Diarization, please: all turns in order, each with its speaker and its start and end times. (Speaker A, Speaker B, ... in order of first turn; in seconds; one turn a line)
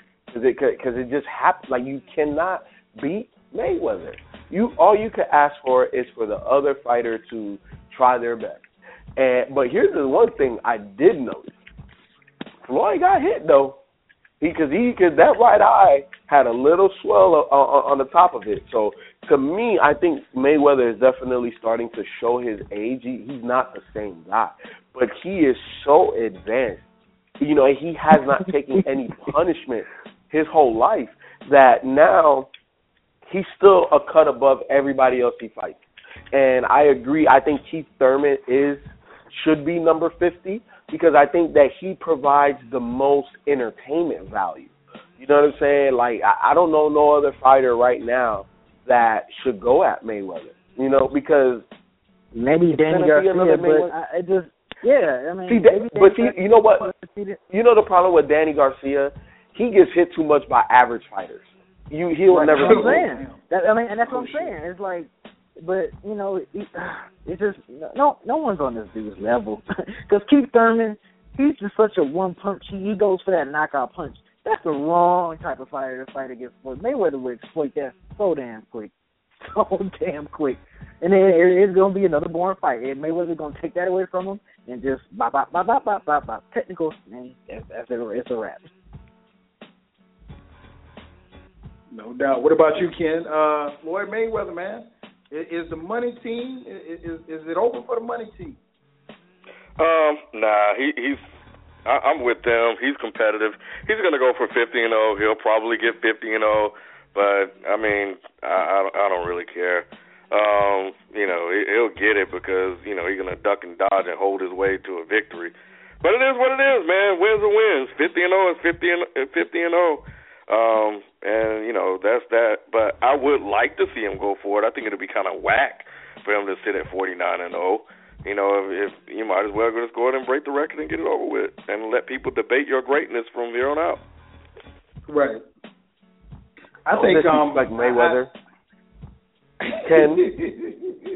Speaker A: 0.3-8.6
Speaker A: 9.2-11.5
Speaker A: 12.7-13.8
Speaker A: 14.4-26.8
Speaker A: 27.4-32.5
Speaker A: 33.2-51.6
Speaker B: 52.3-57.4
Speaker A: 52.9-53.9
Speaker A: 55.5-56.9
Speaker A: 57.5-63.1
Speaker C: 62.3-63.4
Speaker B: 62.6-78.9
Speaker C: 64.1-64.5
Speaker B: 79.4-88.7
Speaker C: 91.9-98.6
Speaker D: 99.8-101.2
Speaker D: 101.8-134.0
Speaker C: 135.1-135.4
Speaker C: 136.9-138.2
Speaker A: 136.9-138.3
Speaker C: 139.6-140.9
Speaker A: 139.8-140.3